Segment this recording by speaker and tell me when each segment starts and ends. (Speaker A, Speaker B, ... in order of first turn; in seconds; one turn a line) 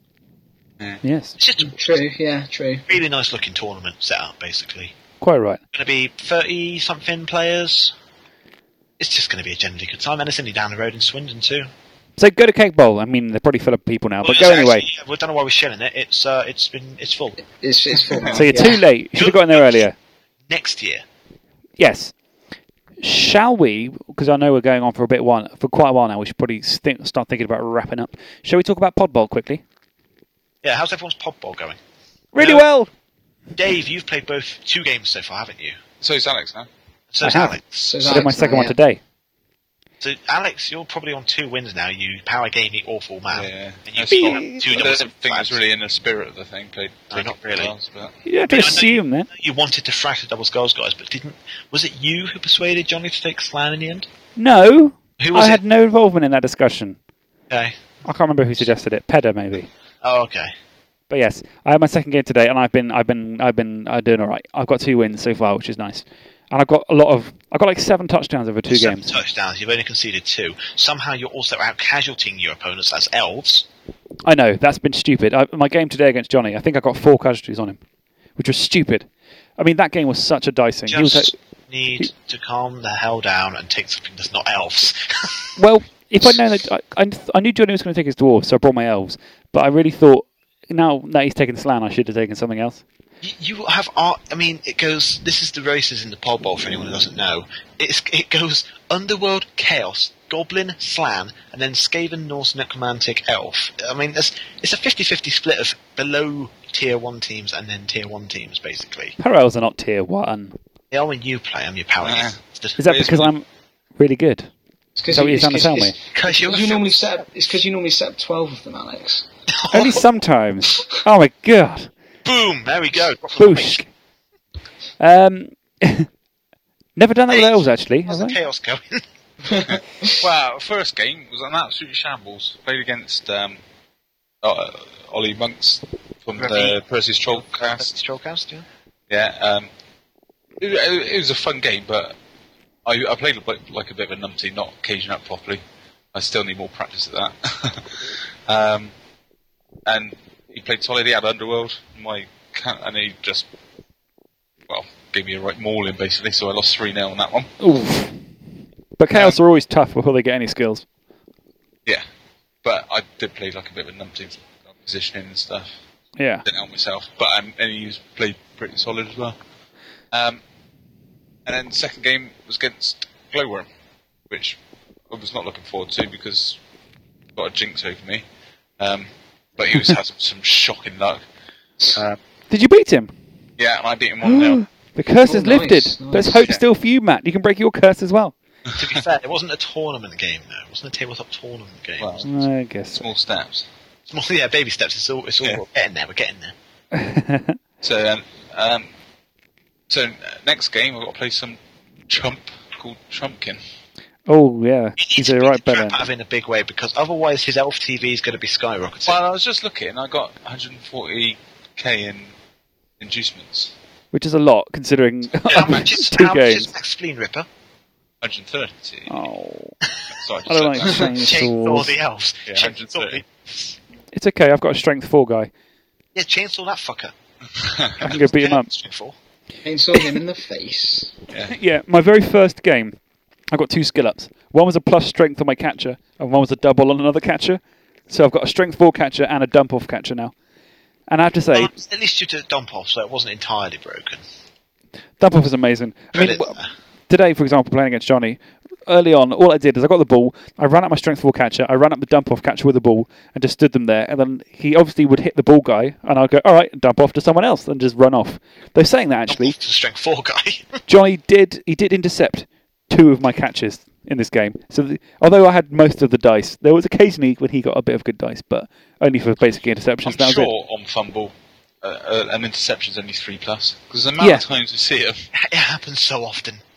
Speaker A: 1.0-1.4
Speaker B: 1.4-1.8
Speaker C: 1.6-2.9
Speaker B: 2.9-4.9
Speaker A: 5.2-5.6
Speaker B: 5.7-7.9
Speaker B: 9.0-11.7
Speaker A: 12.2-14.9
Speaker B: 14.2-17.4
Speaker C: 17.5-18.8
Speaker A: 18.3-19.9
Speaker B: 19.2-19.9
Speaker B: 20.5-21.0
Speaker A: 21.8-22.1
Speaker A: 23.0-29.6
Speaker B: 30.6-31.8
Speaker A: 32.3-32.9
Speaker B: 33.6-35.8
Speaker D: 36.0-36.7
Speaker B: 37.1-38.0
Speaker A: 37.2-39.0
Speaker C: 37.8-38.8
Speaker B: 40.0-45.6
Speaker D: 43.3-48.1
Speaker A: 44.1-44.6
Speaker B: 47.1-47.7
Speaker A: 48.2-49.3
Speaker B: 48.5-54.1
Speaker A: 54.4-57.0
Speaker B: 55.2-55.6
Speaker B: 57.5-57.8
Speaker A: 58.0-59.7
Speaker B: 60.0-60.5
Speaker A: 61.1-69.2
Speaker B: 68.7-73.7
Speaker A: 74.3-77.8
Speaker A: 78.4-79.1
Speaker A: 79.6-81.3
Speaker B: 80.9-85.6
Speaker A: 85.6-92.8
Speaker B: 93.2-109.2
Speaker A: 109.2-110.5
Speaker B: 110.9-112.8
Speaker D: 112.0-113.3
Speaker A: 112.8-113.5
Speaker A: 114.0-114.5
Speaker C: 115.0-119.3
Speaker A: 115.1-116.0
Speaker B: 116.1-117.0
Speaker B: 119.5-120.0
Speaker A: 119.7-121.9
Speaker B: 122.2-123.8
Speaker A: 123.4-123.8
Speaker A: 125.0-126.1
Speaker A: 127.0-128.4
Speaker B: 127.3-129.0
Speaker C: 129.5-130.2
Speaker D: 129.6-133.6
Speaker D: 134.4-137.9
Speaker B: 136.4-138.7
Speaker D: 139.1-139.7
Speaker D: 140.6-142.2
Speaker D: 142.8-145.6
Speaker D: 146.1-148.9
Speaker D: 149.9-153.5
Speaker D: 154.7-157.5
Speaker A: 157.6-158.2
Speaker A: 159.0-160.8
Speaker D: 159.1-159.4
Speaker D: 162.6-165.8
Speaker A: 166.2-166.4
Speaker D: 166.5-169.4
Speaker D: 170.1-170.4
Speaker D: 171.4-173.7
Speaker D: 174.3-174.6
Speaker D: 175.1-176.6
Speaker D: 177.3-178.2
Speaker D: 178.8-181.2
Speaker D: 181.9-182.2
Speaker A: 182.5-183.1
Speaker D: 183.6-184.6
Speaker A: 184.2-188.3
Speaker C: 185.3-186.5
Speaker B: 188.8-192.2
Speaker D: 192.0-192.3
Speaker A: 192.2-193.0
Speaker D: 192.9-193.7
Speaker B: 194.1-196.6
Speaker A: 196.9-197.6
Speaker D: 197.8-198.9
Speaker D: 199.9-203.6
Speaker A: 204.3-206.1
Speaker B: 205.0-209.2
Speaker D: 209.1-212.3
Speaker D: 213.0-213.7
Speaker A: 214.1-216.7
Speaker B: 215.5-217.5
Speaker D: 218.2-219.1
Speaker A: 219.1-219.8
Speaker D: 220.1-221.1
Speaker A: 220.5-221.9
Speaker B: 221.2-223.8
Speaker D: 222.5-223.2
Speaker A: 224.1-225.5
Speaker B: 226.2-227.1
Speaker D: 227.6-228.1
Speaker A: 228.0-228.7
Speaker B: 228.0-229.2
Speaker C: 229.6-231.1
Speaker D: 231.3-231.6
Speaker A: 231.5-233.0
Speaker A: 233.5-240.3
Speaker A: 241.1-241.7
Speaker B: 241.5-244.2
Speaker A: 245.2-246.6
Speaker B: 246.1-246.7
Speaker A: 247.1-259.6
Speaker B: 259.3-260.8
Speaker A: 260.9-270.5
Speaker D: 270.1-275.3
Speaker A: 274.2-274.4
Speaker B: 275.4-276.6